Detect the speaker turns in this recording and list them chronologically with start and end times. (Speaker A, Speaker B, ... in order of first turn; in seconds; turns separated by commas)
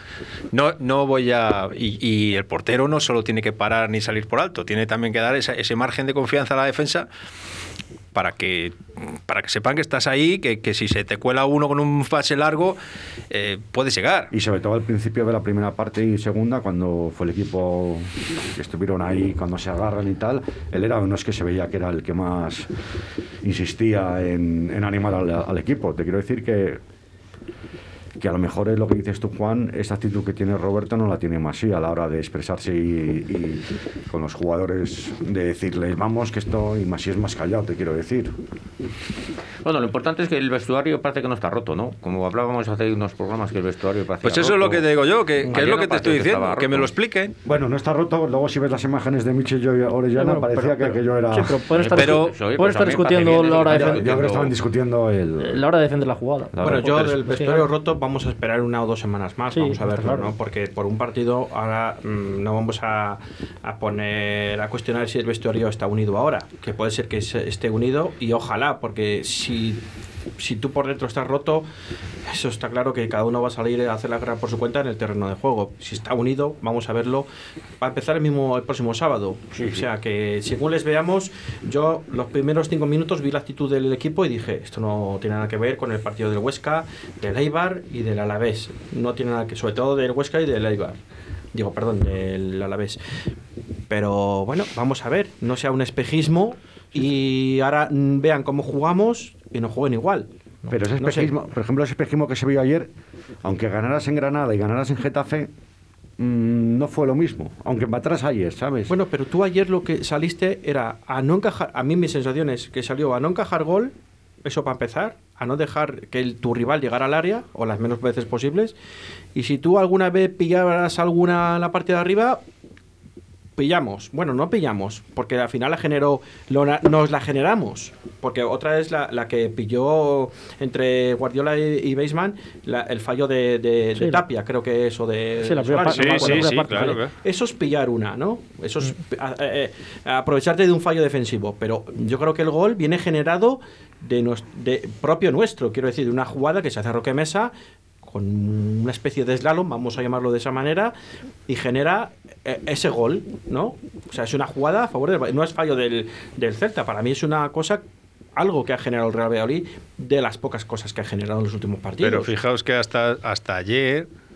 Speaker A: 0.5-7.1, Speaker A: 8.1-12.8, Speaker A: 13.3-14.3, Speaker B: 14.3-22.7, Speaker B: 23.4-26.8, Speaker B: 28.2-38.4, Speaker C: 39.6-44.9, Speaker A: 44.2-47.3, Speaker C: 45.4-46.9, Speaker B: 47.4-51.8, Speaker D: 50.1-54.0, Speaker C: 51.7-54.5, Speaker A: 52.0-52.3, Speaker B: 53.7-55.6, Speaker D: 55.4-57.7, Speaker B: 56.5-57.1, Speaker E: 56.6-69.8, Speaker D: 59.5-60.3, Speaker E: 70.4-71.6, Speaker E: 72.2-77.3, Speaker E: 77.8-91.0, Speaker C: 79.5-79.8, Speaker E: 91.5-93.0, Speaker E: 93.9-100.3, Speaker B: 100.7-102.9, Speaker E: 100.9-101.3, Speaker B: 103.4-105.5, Speaker B: 106.2-108.9, Speaker E: 108.9-113.9, Speaker E: 114.4-118.7, Speaker E: 119.3-122.4, Speaker E: 123.6-147.5, Speaker D: 134.0-134.2, Speaker D: 135.4-137.0, Speaker A: 135.8-137.1, Speaker E: 148.0-150.9, Speaker E: 151.5-157.8, Speaker E: 158.3-162.3, Speaker A: 162.0-164.1